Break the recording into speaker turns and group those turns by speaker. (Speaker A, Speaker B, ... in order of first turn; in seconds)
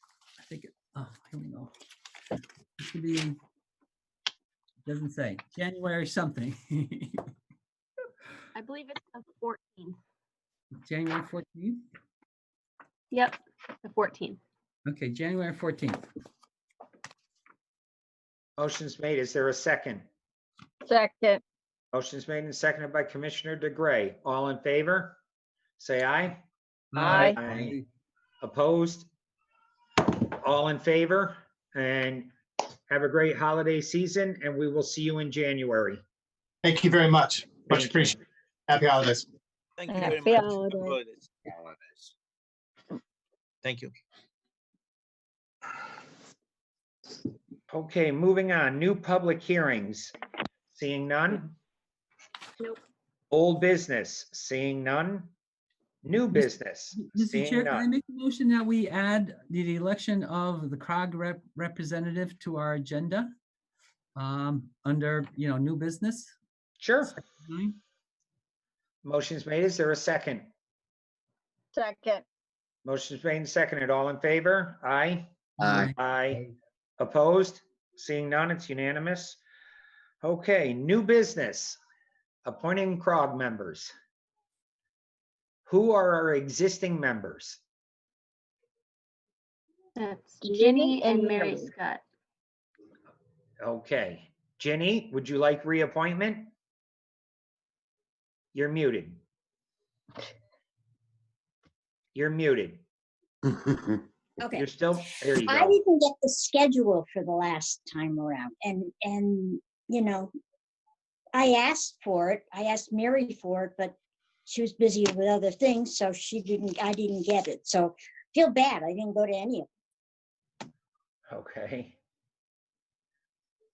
Speaker A: 0.4-1.7, 2.8-3.4, 4.8-7.2, 10.9-11.8, 14.9-16.0, 26.9-27.8, 56.3-63.3, 64.2-66.3, 67.2-67.8, 75.6-76.5
Speaker B: 8.6-10.0, 13.1-14.4, 90.0-92.0
Speaker C: 18.6-20.1, 21.9-25.2, 25.8-26.4, 27.0-27.8, 28.4-29.1, 30.0-32.3, 32.9-36.0, 37.7-38.1, 47.7-50.1, 50.7-51.5, 53.3-55.3, 56.0-57.9, 66.8-67.1, 69.0-70.5, 72.8-75.3, 76.0-76.5, 77.0-79.4, 80.2-81.8, 82.5-83.9, 85.7-87.6, 93.6-96.5, 98.5-99.2, 102.2-102.8, 104.6-105.8, 121.3-122.0
Speaker D: 20.9-21.4, 27.0-27.4, 39.9-41.0, 71.7-72.2
Speaker E: 36.6-39.2
Speaker F: 39.8-41.8, 43.6-43.9
Speaker G: 104.4-104.7, 105.5-110.3, 111.3-114.0, 114.5-119.7